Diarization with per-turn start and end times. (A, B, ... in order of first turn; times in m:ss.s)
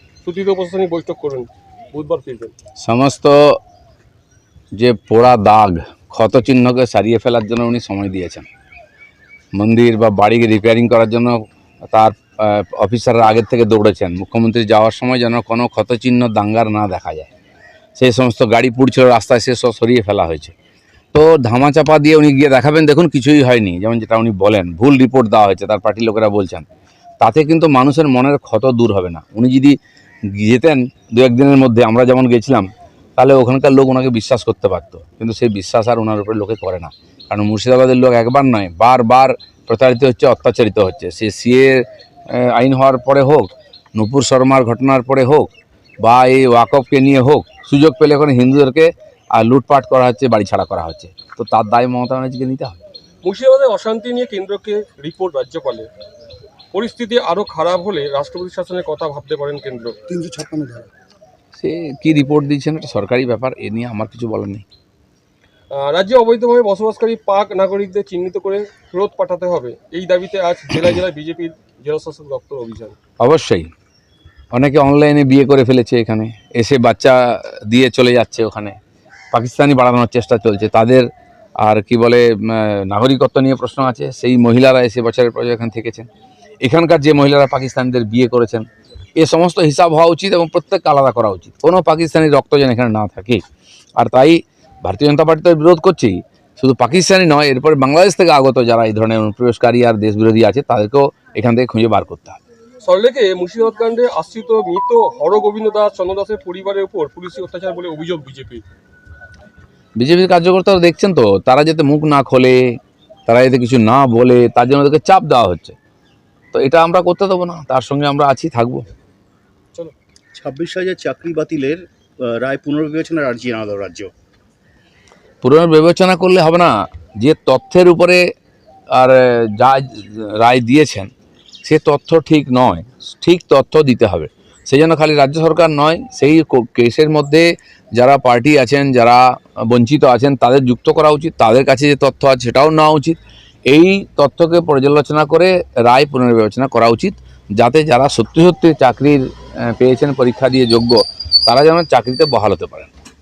0:00.2-0:02.5 A
0:02.8-0:03.6 B
0:04.7-0:08.5 B
0:09.5-0:11.4 B
0:11.9-0:17.3 B
0:18.0-0:20.5 B
0:21.1-0:26.7 B
0:27.2-0:29.8 B
0:30.3-0:45.5 B
0:46.0-0:52.8 B
0:53.2-0:55.9 A
0:56.7-1:00.0 A
1:00.1-1:00.8 C
1:01.5-1:04.6 B
1:05.7-1:13.0 A
1:13.2-1:13.7 B
1:14.5-1:18.8 B
1:19.3-1:21.1 B
1:21.6-1:26.1 B
1:26.6-1:33.4 B
1:34.0-1:42.4 B
1:42.8-1:48.6 A
1:50.0-1:55.8 B
1:56.5-1:58.8 B
2:00.4-2:04.1 C
2:05.4-2:08.2 B
2:08.9-2:11.1 B
2:11.6-2:32.9 B